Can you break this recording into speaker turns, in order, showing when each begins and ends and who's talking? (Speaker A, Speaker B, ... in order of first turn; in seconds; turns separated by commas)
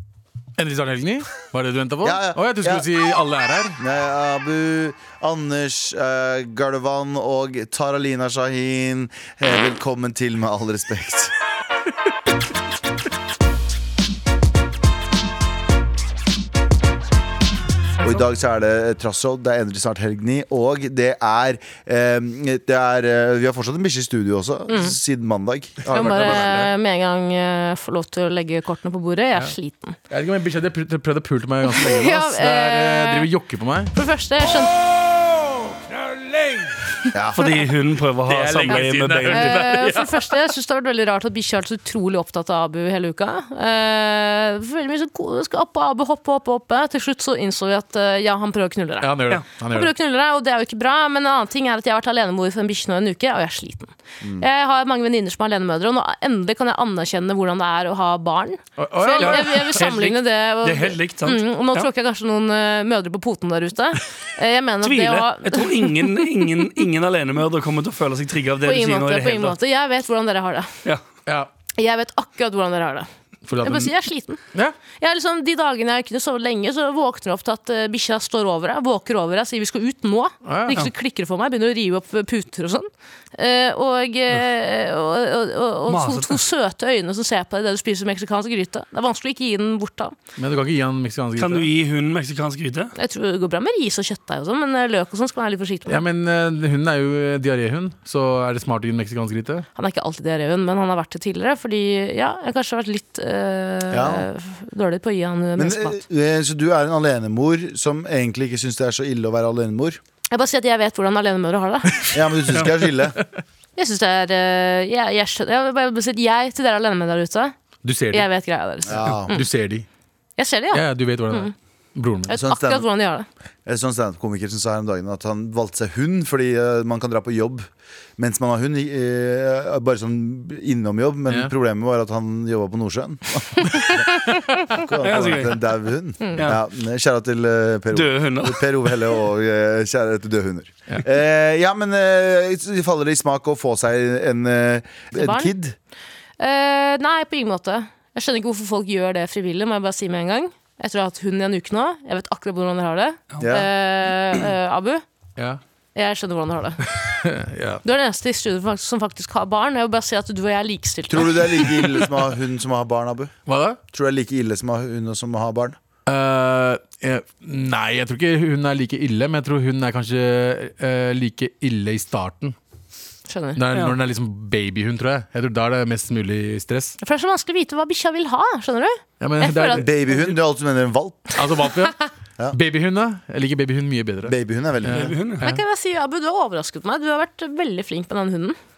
Speaker A: 0.6-3.8, Speaker B: 2.0-2.9, Speaker B: 3.8-11.3, Speaker B: 18.0-26.6, Speaker C: 24.7-24.9, Speaker A: 25.8-26.7, Speaker C: 25.9-30.0, Speaker A: 30.1-33.9, Speaker C: 31.7-33.3, Speaker C: 33.9-34.7, Speaker A: 34.6-37.1, Speaker B: 37.1-37.4, Speaker D: 37.3-39.6, Speaker A: 38.2-40.3, Speaker C: 39.3-66.3, Speaker A: 49.0-49.9, Speaker A: 58.8-59.7, Speaker D: 59.2-61.9, Speaker D: 64.8-69.5, Speaker C: 68.6-70.7, Speaker C: 71.7-73.1, Speaker A: 73.4-73.9, Speaker C: 73.6-74.4, Speaker C: 75.0-90.1, Speaker A: 80.4-80.8, Speaker D: 85.9-86.4, Speaker A: 90.4-91.7, Speaker D: 91.4-92.9, Speaker C: 92.9-96.0, Speaker A: 95.9-99.7, Speaker C: 99.7-106.0, Speaker B: 103.9-104.3, Speaker B: 105.6-110.0, Speaker C: 110.3-112.0, Speaker B: 112.1-113.2, Speaker A: 112.7-113.2, Speaker C: 113.8-117.5, Speaker A: 117.8-118.3, Speaker C: 118.1-119.5, Speaker B: 118.8-119.3, Speaker A: 119.3-119.8, Speaker C: 120.4-121.5, Speaker A: 120.7-122.3, Speaker C: 122.3-123.2, Speaker B: 122.3-122.8, Speaker B: 123.7-145.8, Speaker D: 135.0-135.6, Speaker C: 136.2-136.5, Speaker D: 137.9-138.7, Speaker C: 145.1-145.5, Speaker C: 146.4-155.0, Speaker B: 153.4-153.7, Speaker C: 155.9-156.8, Speaker A: 156.8-157.8, Speaker C: 157.8-162.0, Speaker B: 161.1-163.3, Speaker A: 163.4-163.8, Speaker B: 163.9-165.8, Speaker A: 166.1-172.5, Speaker C: 173.3-173.6, Speaker A: 173.6-177.0, Speaker C: 177.0-179.8, Speaker A: 179.2-179.9, Speaker B: 179.7-181.4, Speaker A: 181.3-182.0, Speaker A: 182.5-185.6, Speaker B: 184.2-185.2, Speaker D: 184.9-185.4, Speaker C: 185.4-188.6